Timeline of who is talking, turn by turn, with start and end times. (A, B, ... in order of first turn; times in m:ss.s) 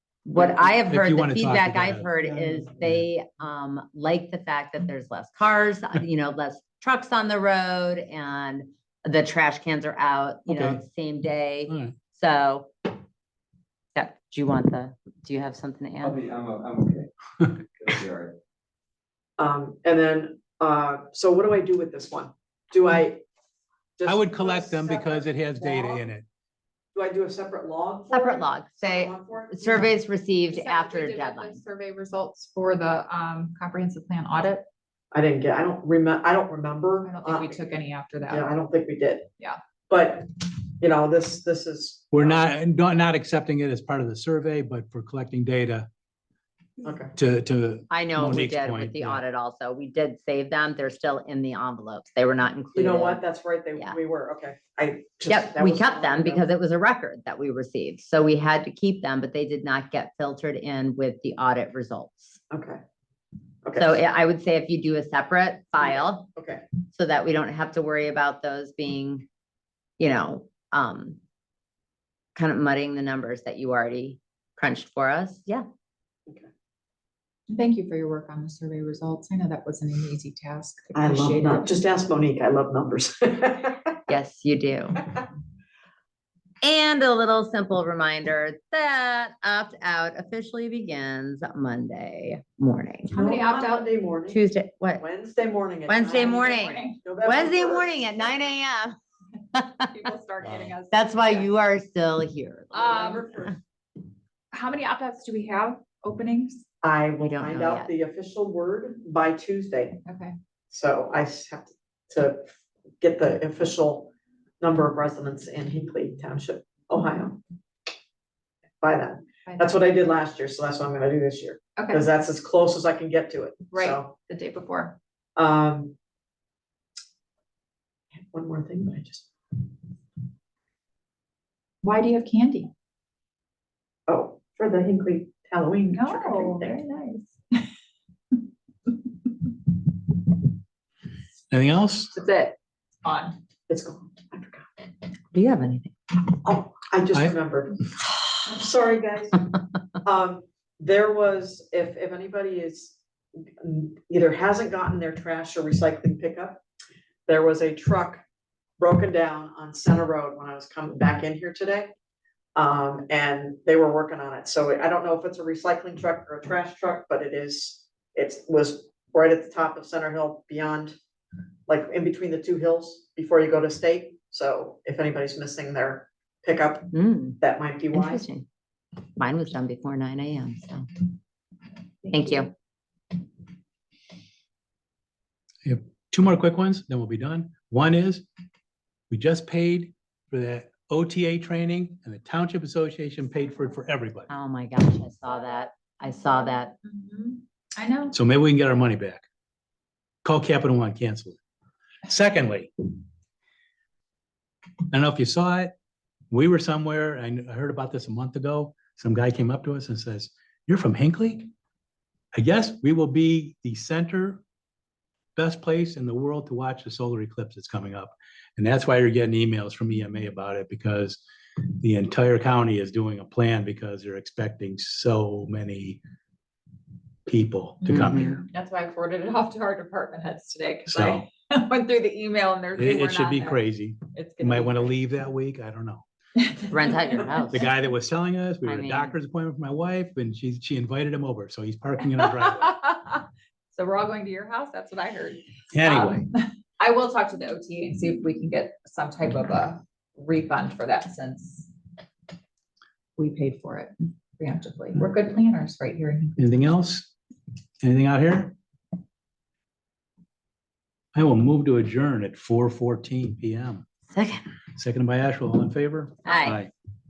0:00.2-0:12.7 A
0:00.9-0:02.1 B
0:10.5-0:10.8 B
0:11.7-0:11.9 B
0:13.9-0:16.2 A
0:16.0-0:18.3 C
0:19.4-0:23.2 D
0:24.0-0:26.1 D
0:24.0-0:26.2 B
0:26.9-0:29.9 D
0:28.1-0:31.6 A
0:30.5-0:34.6 E
0:35.1-0:37.6 D
0:37.0-0:38.5 E
0:38.3-0:39.3 D
0:39.9-0:42.4 D
0:42.1-0:45.9 B
0:46.8-0:47.1 D
0:47.2-0:49.2 B
0:47.9-0:53.2 A
0:52.7-0:56.4 D
0:55.3-1:02.4 A
1:02.5-1:02.8 D
1:03.6-1:04.0 D
1:03.8-1:06.3 A
1:05.8-1:06.6 D
1:06.9-1:09.2 A
1:10.0-1:11.2 A
1:12.4-1:15.6 A
1:17.5-1:21.7 E
1:20.9-1:24.0 D
1:24.1-1:25.1 A
1:26.6-1:33.1 A
1:33.1-1:33.9 E
1:33.1-1:34.4 D
1:34.3-1:35.0 A
1:34.9-1:38.5 D
1:35.9-1:39.0 A
1:36.1-1:37.0 E
1:39.7-1:41.5 E
1:40.9-1:43.2 A
1:42.7-1:43.5 E
1:42.9-1:43.6 D
1:44.5-1:46.6 E
1:46.8-1:50.0 D
1:47.2-1:47.9 A
1:50.0-1:50.3 E
1:50.7-1:52.5 D
1:53.0-1:57.4 D
1:58.8-2:04.1 D
1:59.4-1:59.8 E
2:01.8-2:02.0 E
2:03.7-2:05.0 E
2:05.4-2:06.0 D
2:08.3-2:09.3 D
2:11.8-2:12.7 E
2:14.1-2:16.8 D
2:15.9-2:17.7 E
2:21.5-2:22.1 B
2:22.1-2:23.4 E
2:23.7-2:24.7 D
2:25.3-2:25.9 A
2:26.3-2:27.8 D
2:28.4-2:29.5 D
2:30.0-2:33.0 D
2:33.6-2:36.6 D
2:37.3-2:38.2 D
2:38.8-2:41.9 D
2:42.6-2:51.0 D
2:51.7-2:58.3 D
2:56.9-2:57.4 A
2:57.9-2:58.4 A
2:59.2-3:01.0 A
3:02.1-3:02.5 A
3:02.1-3:02.4 E
3:05.6-3:08.2 B
3:09.1-3:14.3 B
3:14.3-3:16.7 A
3:16.8-3:18.2 E
3:18.1-3:19.2 B
3:20.2-3:21.4 B
3:22.0-3:22.7 B
3:24.9-3:25.7 B
3:26.3-3:31.5 B
3:32.3-3:34.4 B
3:35.4-3:46.0 B
3:47.2-3:48.2 B
3:47.8-3:53.6 E
3:47.9-3:48.4 A
3:50.9-3:51.2 B
3:52.8-3:56.0 B
3:54.1-3:55.0 E
3:56.4-3:57.6 E
3:56.7-3:57.6 A
3:57.5-4:02.7 B
3:58.6-3:59.1 A
4:02.2-4:11.7 E
4:05.7-4:06.2 B
4:13.2-4:16.7 E
4:16.4-4:17.1 B
4:17.8-4:18.5 B
4:21.1-4:23.8 B
4:24.1-4:24.4 A
4:24.8-4:26.7 B
4:26.2-4:26.6 A